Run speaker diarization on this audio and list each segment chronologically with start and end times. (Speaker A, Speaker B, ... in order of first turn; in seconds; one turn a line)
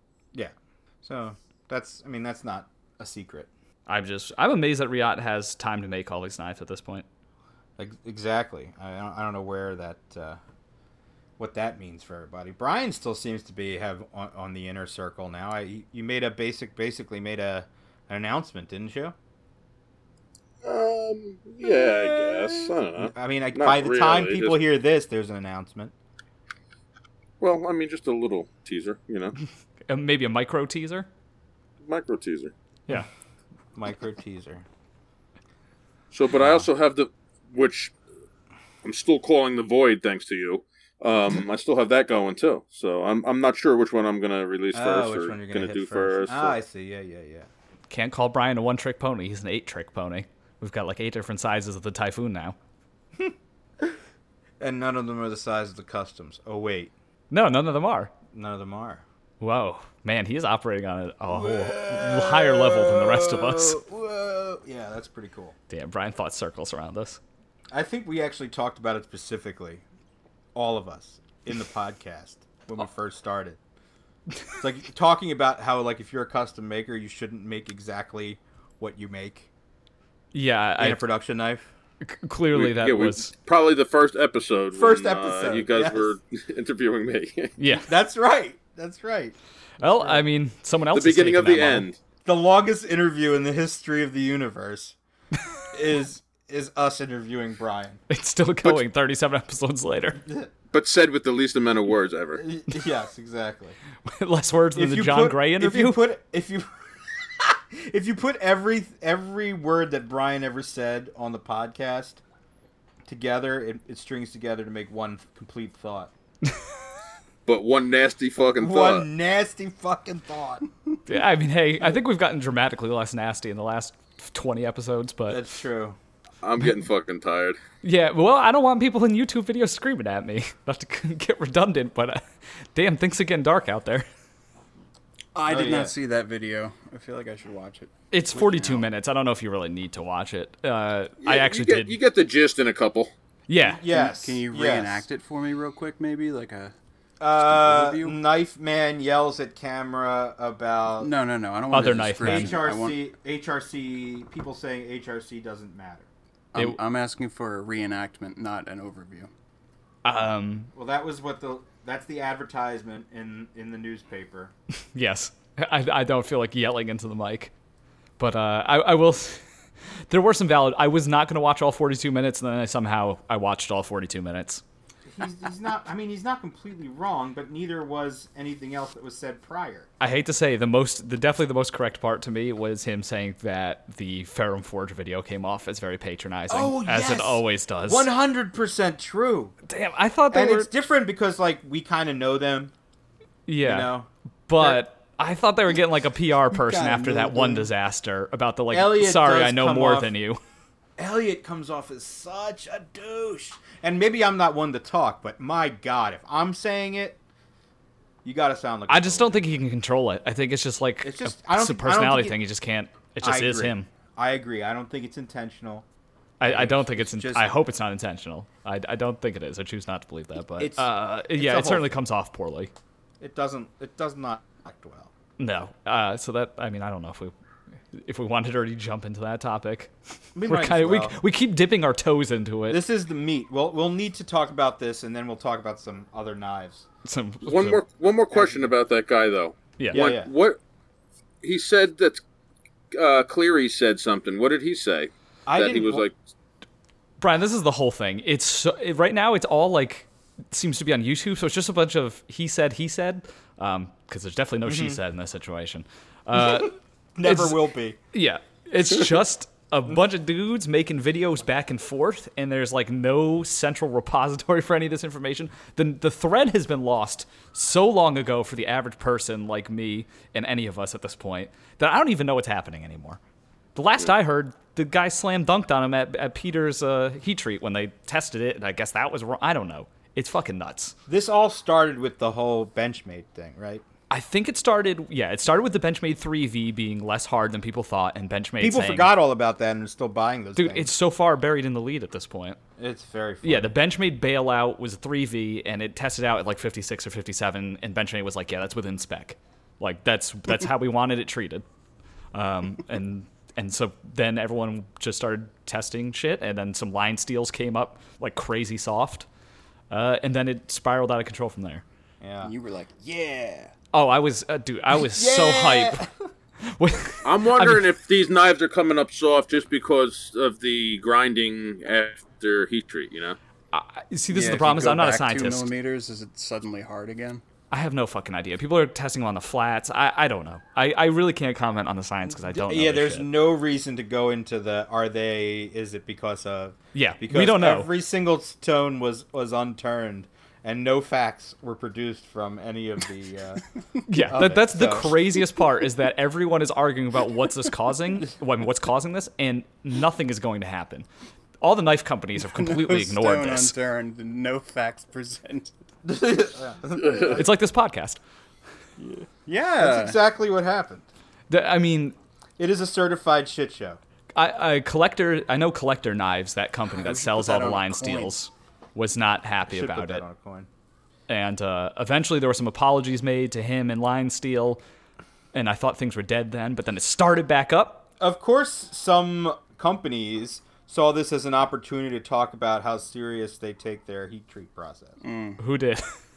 Speaker A: 0.3-3.5
Speaker B: 3.9-7.1
Speaker A: 7.8-10.4
Speaker A: 11.4-19.1
Speaker C: 20.6-24.6
Speaker A: 21.6-25.9
Speaker C: 27.4-29.4
Speaker B: 29.9-31.1
Speaker C: 31.8-32.5
Speaker A: 33.8-34.6
Speaker C: 36.1-37.9
Speaker C: 38.8-46.6
Speaker A: 44.7-47.5
Speaker B: 47.9-52.6
Speaker A: 53.2-54.0
Speaker A: 54.6-56.9
Speaker B: 57.3-58.1
Speaker A: 58.3-59.0
Speaker B: 59.4-63.8
Speaker A: 61.3-65.6
Speaker B: 65.7-67.2
Speaker A: 67.7-69.8
Speaker A: 70.5-73.6
Speaker A: 74.6-79.5
Speaker B: 80.3-81.0
Speaker A: 80.8-81.7
Speaker B: 82.0-83.3
Speaker C: 82.5-87.5
Speaker A: 84.7-86.1
Speaker B: 87.6-87.9
Speaker A: 87.8-90.2
Speaker B: 89.8-91.9
Speaker C: 90.9-92.0
Speaker A: 92.2-95.0
Speaker A: 95.7-98.0
Speaker B: 98.1-100.2
Speaker C: 100.7-102.4
Speaker A: 102.4-103.8
Speaker B: 104.1-106.0
Speaker A: 104.8-112.2
Speaker A: 113.1-116.1
Speaker C: 117.5-119.1
Speaker A: 118.6-120.7
Speaker B: 121.1-125.4
Speaker A: 125.3-126.0
Speaker C: 126.4-127.6
Speaker B: 127.8-134.1
Speaker D: 135.3-138.8
Speaker A: 135.5-135.9
Speaker B: 138.1-141.9
Speaker C: 141.2-143.1
Speaker B: 143.5-143.8
Speaker A: 143.6-145.1
Speaker D: 143.9-146.7
Speaker A: 147.2-151.1
Speaker D: 147.3-148.2
Speaker D: 151.0-153.0
Speaker B: 151.7-152.6
Speaker A: 152.2-156.1
Speaker D: 156.5-159.3
Speaker B: 160.1-160.7
Speaker A: 160.7-164.5
Speaker B: 164.9-167.5
Speaker B: 168.2-169.4
Speaker B: 170.1-174.6
Speaker A: 175.1-179.9
Speaker B: 180.0-188.1
Speaker A: 186.5-189.6
Speaker B: 189.7-190.7
Speaker A: 190.3-192.7
Speaker B: 193.5-193.9
Speaker A: 193.6-194.8
Speaker B: 194.5-200.4
Speaker A: 196.6-197.7
Speaker D: 196.8-197.2
Speaker A: 198.7-200.1
Speaker A: 201.0-207.2
Speaker A: 208.2-209.4
Speaker B: 208.9-213.9
Speaker A: 211.0-212.4
Speaker A: 213.2-215.8
Speaker B: 216.4-222.7
Speaker A: 216.4-217.6
Speaker A: 220.6-221.9
Speaker A: 223.2-225.1
Speaker B: 225.4-227.3
Speaker B: 227.9-232.8
Speaker A: 230.3-231.2
Speaker A: 232.7-236.9
Speaker B: 237.1-237.8
Speaker C: 237.4-240.6
Speaker A: 238.3-238.7
Speaker B: 239.8-240.0
Speaker A: 239.9-240.3
Speaker C: 241.4-242.2
Speaker C: 242.9-246.1
Speaker A: 245.5-246.1
Speaker B: 247.2-257.6
Speaker A: 254.7-255.0
Speaker A: 256.4-258.0
Speaker B: 258.1-273.2
Speaker B: 273.8-281.0
Speaker A: 281.1-283.9
Speaker B: 284.1-289.1
Speaker A: 288.6-290.9
Speaker B: 290.6-292.6
Speaker A: 292.8-293.7
Speaker B: 293.4-301.6
Speaker B: 302.3-309.3
Speaker B: 309.9-311.8
Speaker A: 312.2-312.5
Speaker D: 312.4-313.7
Speaker B: 313.9-316.1
Speaker A: 315.0-316.2
Speaker B: 316.6-317.9
Speaker C: 317.2-323.4
Speaker B: 323.7-325.7
Speaker D: 324.3-327.4
Speaker B: 327.7-333.3
Speaker A: 332.3-343.6
Speaker B: 336.9-337.9
Speaker B: 344.1-351.1
Speaker A: 344.2-345.1
Speaker B: 351.6-353.8
Speaker D: 352.5-355.7
Speaker A: 356.0-357.5
Speaker C: 357.0-357.4
Speaker B: 357.3-358.2
Speaker D: 359.0-360.2
Speaker A: 359.8-361.1
Speaker B: 361.5-362.2
Speaker A: 362.6-364.0
Speaker B: 364.3-370.2
Speaker D: 367.0-368.3
Speaker A: 369.7-370.7
Speaker B: 371.3-374.8
Speaker B: 375.5-378.1
Speaker A: 378.2-385.2
Speaker D: 385.2-385.6
Speaker B: 385.6-386.1